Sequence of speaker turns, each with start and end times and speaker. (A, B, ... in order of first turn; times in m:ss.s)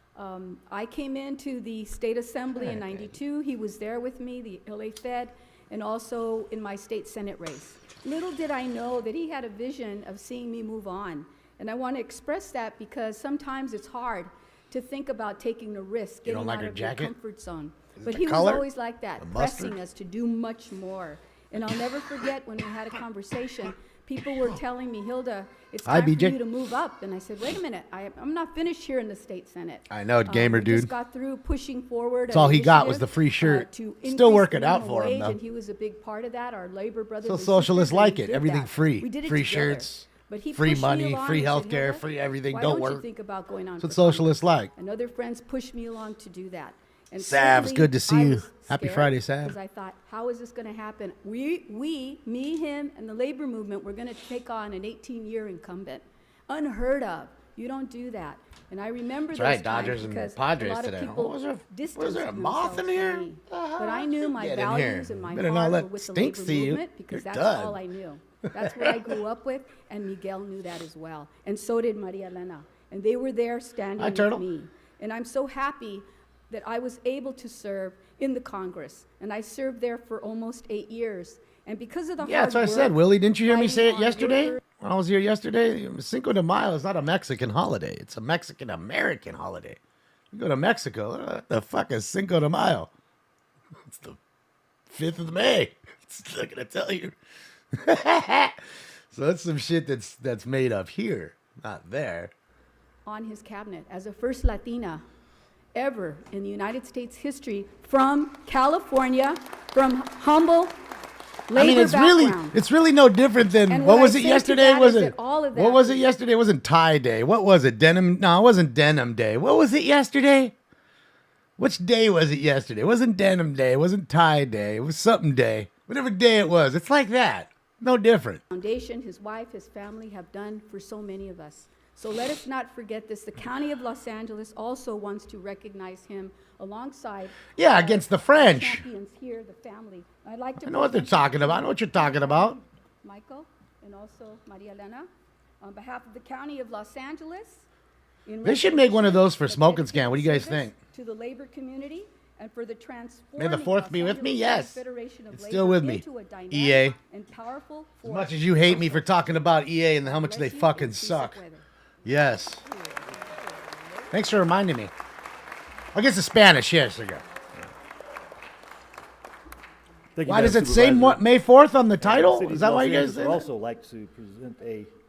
0:00.2-1:24.6 A
0:02.6-0:03.1 B
0:16.2-0:17.1 B
0:18.0-0:18.7 B
0:19.2-0:19.8 B
0:25.8-0:26.4 B
0:29.9-0:30.9 B
0:32.3-0:35.4 B
0:37.2-0:43.0 B
0:43.8-0:44.7 B
0:47.2-0:49.6 B
0:59.3-1:07.8 B
1:08.5-1:09.2 B
1:14.0-1:14.4 B
1:22.2-1:29.8 B
1:30.3-1:32.9 B
1:33.8-1:34.2 B
1:34.9-1:37.2 B
1:37.7-1:42.3 B
1:43.0-1:45.0 A
1:45.8-1:50.7 A
1:51.5-1:52.6 A
1:51.6-2:00.6 B
1:53.7-1:56.0 A
2:01.6-2:08.4 B
2:08.5-2:25.1 A
2:17.6-2:18.8 B
2:20.6-2:22.6 B
2:25.6-2:27.7 A
2:28.3-2:39.1 A
2:28.4-2:30.7 B
2:33.4-2:37.0 B
2:38.0-2:41.4 B
2:40.0-2:41.6 A
2:42.0-2:42.6 B
2:42.4-2:44.1 A
2:44.1-2:44.9 B
2:45.9-2:47.7 B
2:50.2-2:51.2 C
2:50.2-2:53.4 B
2:52.0-2:54.9 C